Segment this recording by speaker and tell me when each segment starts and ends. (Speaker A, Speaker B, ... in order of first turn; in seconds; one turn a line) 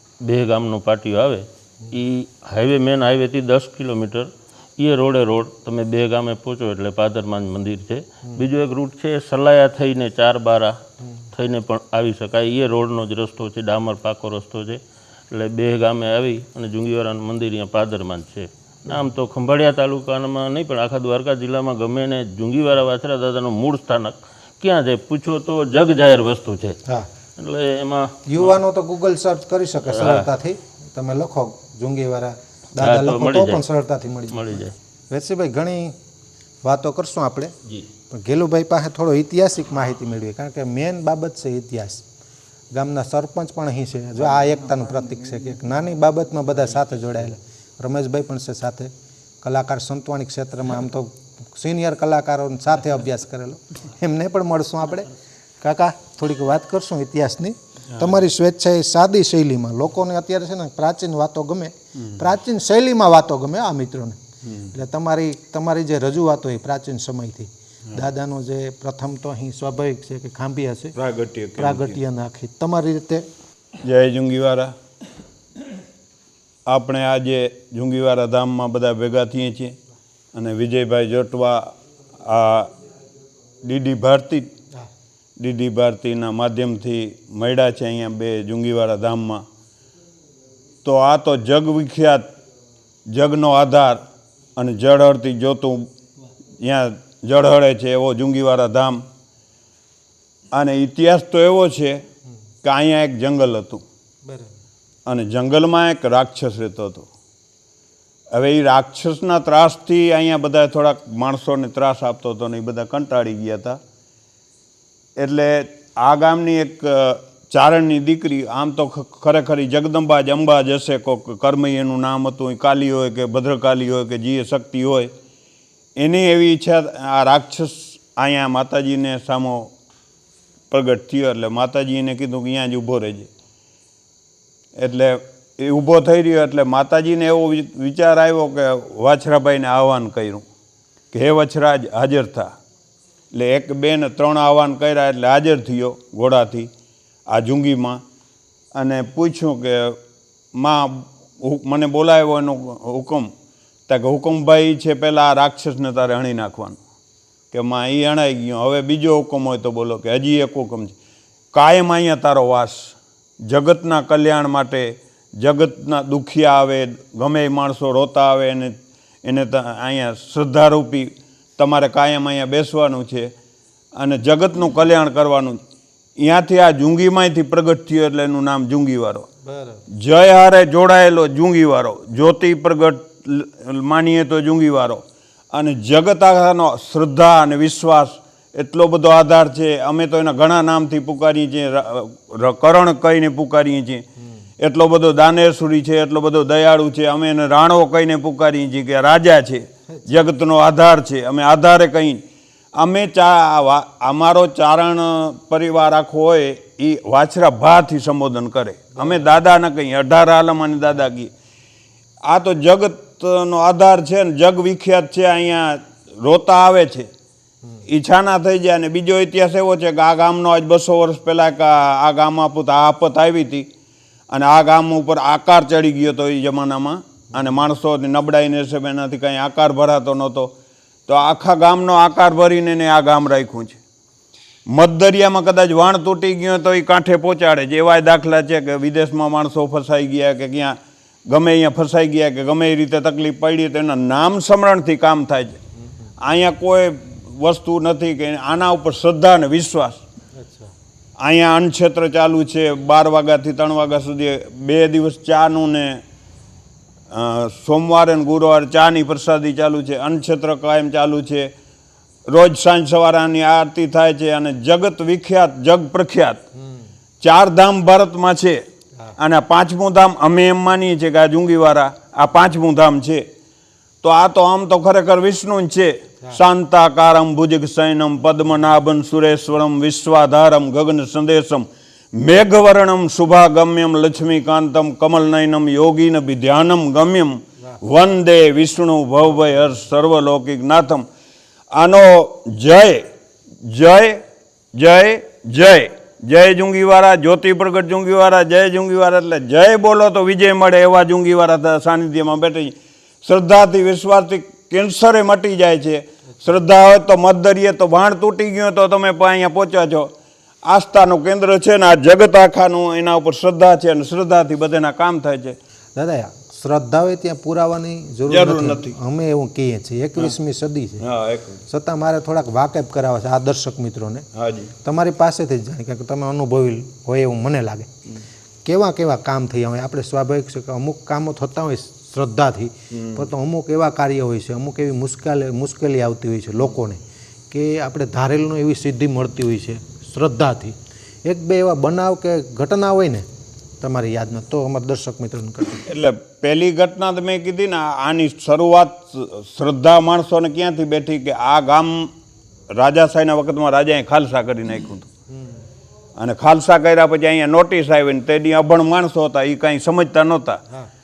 Speaker A: 0.2-10.8
Speaker A: 11.3-14.8
Speaker A: 15.3-26.8
Speaker A: 27.4-28.6
Speaker B: 28.3-34.5
Speaker A: 29.9-30.3
Speaker A: 32.8-33.6
Speaker A: 34.3-34.8
Speaker B: 35.1-36.0
Speaker B: 36.6-37.5
Speaker B: 38.1-42.0
Speaker B: 42.7-48.9
Speaker B: 49.4-64.2
Speaker C: 62.0-62.3
Speaker C: 64.4-64.7
Speaker B: 64.7-71.0
Speaker C: 71.0-72.0
Speaker B: 71.6-73.3
Speaker C: 73.8-74.8
Speaker C: 76.7-79.8
Speaker C: 80.3-82.7
Speaker C: 83.6-84.5
Speaker C: 85.4-89.5
Speaker C: 90.8-92.3
Speaker C: 93.1-94.0
Speaker C: 94.6-95.9
Speaker C: 96.6-99.0
Speaker C: 100.5-102.0
Speaker C: 102.6-103.8
Speaker B: 104.2-104.6
Speaker C: 105.1-107.1
Speaker C: 108.3-113.8
Speaker C: 115.2-125.1
Speaker C: 126.0-129.7
Speaker C: 130.7-133.3
Speaker C: 134.8-140.4
Speaker C: 141.1-142.6
Speaker C: 143.3-146.7
Speaker C: 147.3-148.0
Speaker C: 148.8-150.0
Speaker C: 150.6-153.3
Speaker C: 153.9-156.8
Speaker C: 157.5-160.9
Speaker C: 161.5-173.3
Speaker C: 174.0-175.6
Speaker C: 176.2-179.3
Speaker B: 179.4-179.8
Speaker C: 179.9-194.0
Speaker B: 194.2-194.5
Speaker C: 194.6-202.2
Speaker C: 202.8-211.3
Speaker B: 208.9-209.3
Speaker C: 212.2-217.1
Speaker C: 217.9-223.7
Speaker C: 224.3-230.5
Speaker B: 227.3-227.6
Speaker C: 231.1-233.8
Speaker C: 234.7-240.8
Speaker C: 241.3-245.6
Speaker B: 245.8-246.1
Speaker C: 246.2-250.0
Speaker B: 250.3-250.8
Speaker C: 251.2-256.0
Speaker C: 257.1-261.5
Speaker C: 262.3-266.4
Speaker B: 266.5-266.9
Speaker C: 267.2-268.6
Speaker C: 269.2-273.3
Speaker C: 274.0-291.1
Speaker C: 291.7-293.1
Speaker C: 293.6-294.2
Speaker C: 294.8-310.1
Speaker C: 310.6-315.6
Speaker B: 316.0-321.0
Speaker C: 318.3-319.0
Speaker C: 321.0-321.6
Speaker B: 321.7-324.2
Speaker C: 324.4-324.7
Speaker B: 324.8-327.9
Speaker B: 328.6-343.2
Speaker C: 332.9-333.3
Speaker B: 343.8-345.9
Speaker C: 345.9-352.1
Speaker C: 352.7-355.1
Speaker B: 355.3-355.7
Speaker C: 356.2-360.6